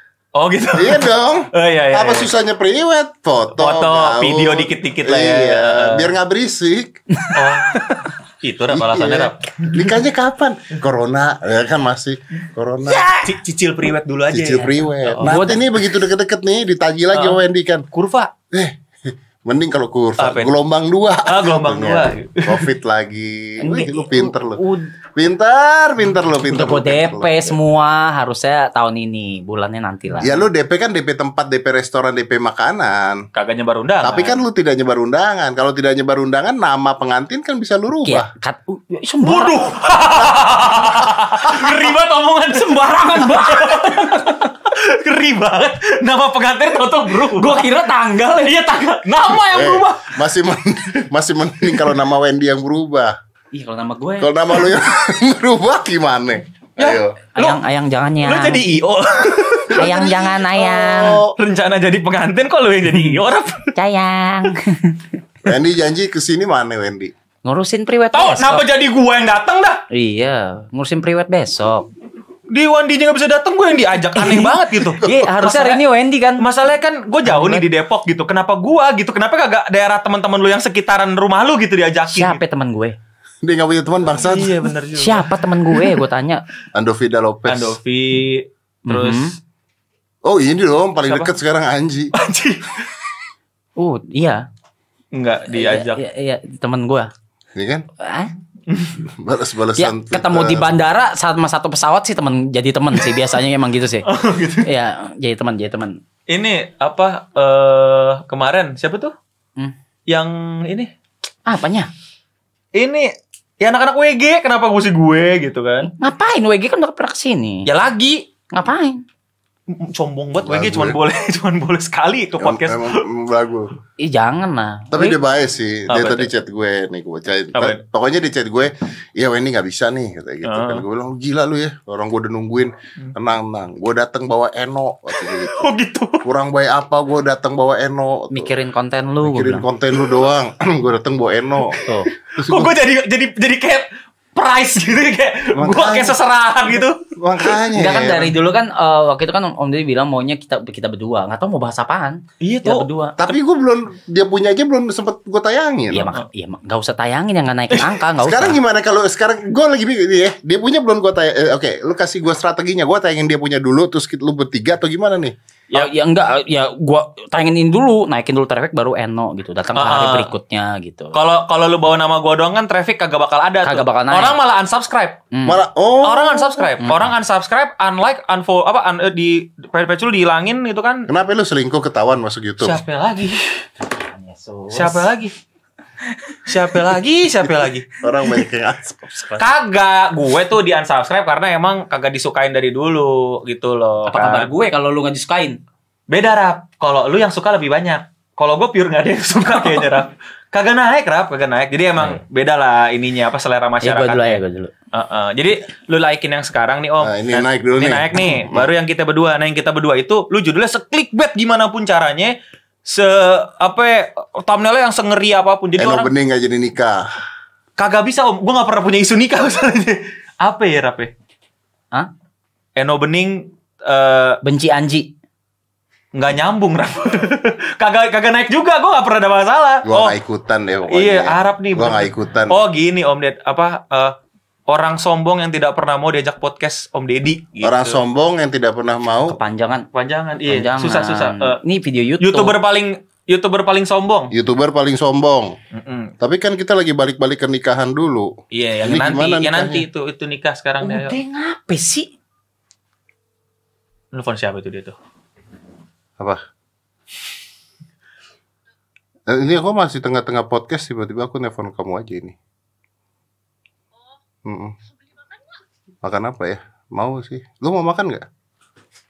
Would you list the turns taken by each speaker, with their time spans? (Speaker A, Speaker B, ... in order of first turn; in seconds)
Speaker A: 0.3-2.3, 3.5-6.1, 7.3-9.9, 13.2-15.6, 17.1-17.4, 17.9-18.3, 20.2-20.6, 21.2-22.7, 33.3-34.4, 39.2-47.7, 48.6-50.1, 56.8-57.6, 58.2-60.0, 61.3-63.7, 68.1-69.8, 72.5-75.8, 76.4-82.4, 84.2-86.0, 87.5-89.3, 91.0-91.3, 92.1-92.9, 95.1-96.0, 98.7-99.0, 104.0-104.7, 106.3-109.1, 110.1-110.9, 112.7-115.9, 117.7-118.2, 119.7-123.0, 125.9-126.3, 127.5-127.8, 130.4-130.8, 135.2-136.2, 142.2-147.6, 152.4-153.4, 169.7-170.3, 171.1-175.2, 176.0-181.1, 182.6-183.6, 184.7-185.3, 186.4-187.9, 189.3-194.5, 196.1-216.1, 217.8-221.1, 222.8-224.4, 226.1-230.1, 230.9-234.1, 234.7-238.0, 239.9-241.6, 242.2-244.3, 245.7-246.1, 248.5-251.2, 254.1-254.9
Speaker B: 0.7-7.0, 8.7-13.1, 14.3-17.8, 18.5-18.8, 19.4-24.6, 25.1-27.6, 30.2-33.2, 34.0-38.3, 49.4-53.1, 54.2-57.2, 59.7-61.3, 65.4-67.1, 83.4-84.6, 86.7-87.8, 90.2-92.1, 97.5-97.8, 99.0-100.7, 120.4-121.0, 122.4-123.7, 124.9-135.7, 136.2-138.5, 139.2-141.8, 142.4-142.7, 145.5-146.2, 147.2-148.3, 153.2-156.1, 158.2-165.3, 175.4-176.7, 181.1-182.8, 188.0-189.0, 207.0-208.7, 215.8-217.1, 229.8-232.6, 237.6-239.4, 244.3-245.5, 246.2-248.3, 248.8-249.8, 259.3-262.4, 264.4-264.7, 266.0-268.2
Speaker C: 7.2-8.1, 12.8-13.4, 15.2-15.6, 23.6-24.9, 26.5-30.4, 38.0-39.6, 42.5-44.5, 47.1-49.0, 53.5-54.3, 57.3-58.6, 59.7-61.2, 63.7-65.2, 67.4-68.6, 69.9-71.9, 74.2-76.5, 77.2-77.7, 82.1-83.0, 84.9-86.4, 88.8-89.3, 93.8-94.4, 95.5-97.1, 98.0-98.3, 99.8-104.0, 104.6-106.0, 111.5-111.9, 115.8-117.7, 118.5-119.0, 124.0-125.2, 138.3-139.7, 141.8-142.1, 147.7-153.2, 155.9-158.6, 165.7-171.1, 173.6-174.4, 175.3-175.6, 176.8-177.1, 183.8-185.1, 186.1-186.9, 189.1-189.5, 194.1-195.6, 199.5-199.8, 203.8-204.7, 224.4-225.1, 239.3-239.9, 240.4-242.6, 250.8-252.1